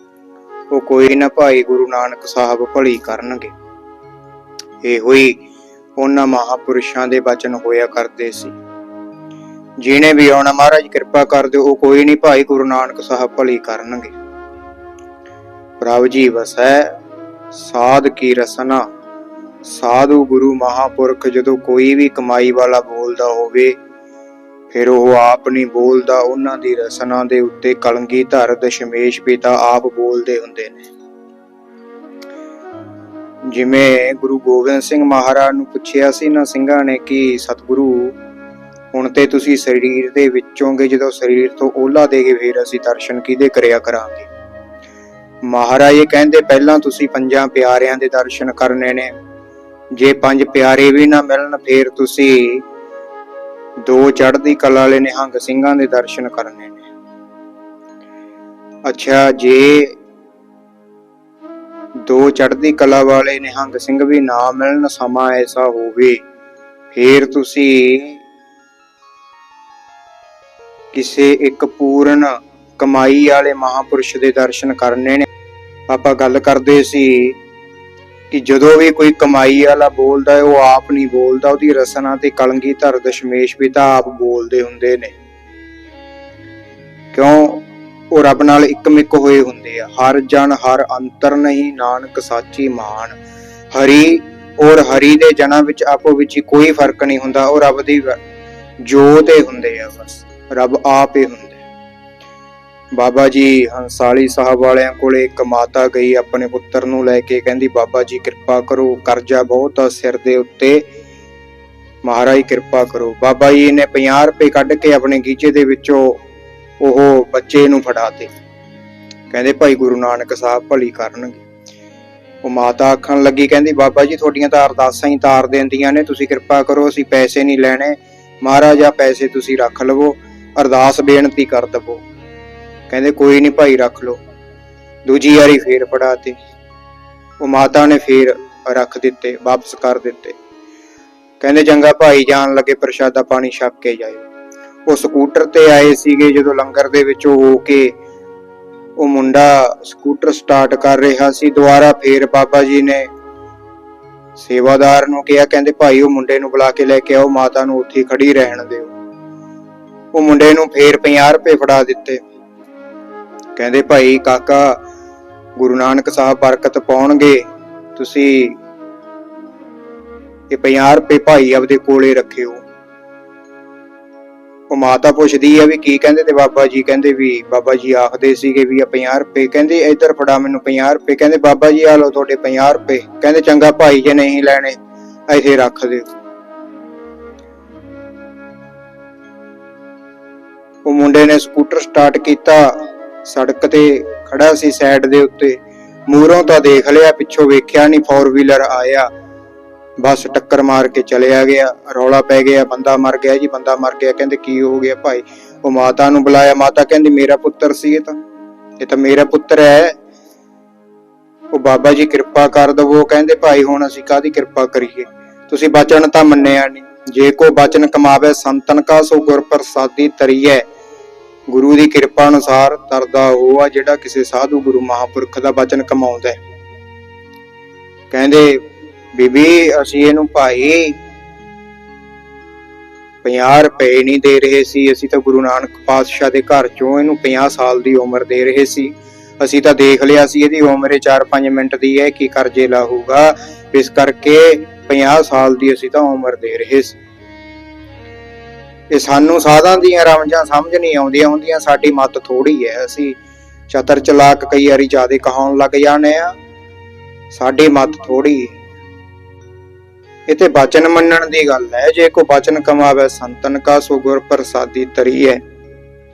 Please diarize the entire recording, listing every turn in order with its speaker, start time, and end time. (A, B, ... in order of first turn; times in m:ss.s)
0:00.7-0:03.5 A
0:04.8-0:05.4 A
0:06.0-0:08.6 A
0:09.8-0:14.1 A
0:15.8-0:16.9 A
0:17.5-0:18.9 A
0:19.7-0:23.8 A
0:24.7-0:30.8 A
0:33.4-0:38.2 A
0:38.9-0:44.3 A
0:45.4-0:49.1 A
0:49.9-0:52.6 A
0:53.8-0:56.8 A
0:58.8-1:00.0 A
1:02.0-1:06.2 A
1:06.9-1:08.2 A
1:10.9-1:15.3 A
1:15.9-1:17.4 A
1:18.3-1:25.2 A
1:27.1-1:33.2 A
1:33.7-1:38.2 A
1:38.8-1:41.6 A
1:43.0-1:50.9 A
1:52.0-1:56.2 A
1:56.8-1:58.3 A
1:59.3-2:01.4 A
2:02.4-2:12.0 A
2:12.9-2:14.2 A
2:15.1-2:16.4 A
2:17.4-2:20.4 A
2:21.4-2:24.2 A
2:24.9-2:28.0 A
2:29.0-2:33.1 A
2:34.4-2:38.9 A
2:40.1-2:42.2 A
2:43.6-2:44.8 A
2:45.6-2:48.6 A
2:50.5-2:52.6 A
2:54.7-3:04.8 A
3:05.3-3:06.1 A
3:10.8-3:19.1 A
3:20.0-3:28.2 A
3:28.8-3:30.0 A
3:31.5-3:40.6 A
3:41.5-3:46.4 A
3:48.1-3:51.0 A
3:53.2-4:07.0 A
4:08.9-4:13.2 A
4:13.7-4:16.4 A
4:17.3-4:18.6 A
4:20.3-4:25.4 A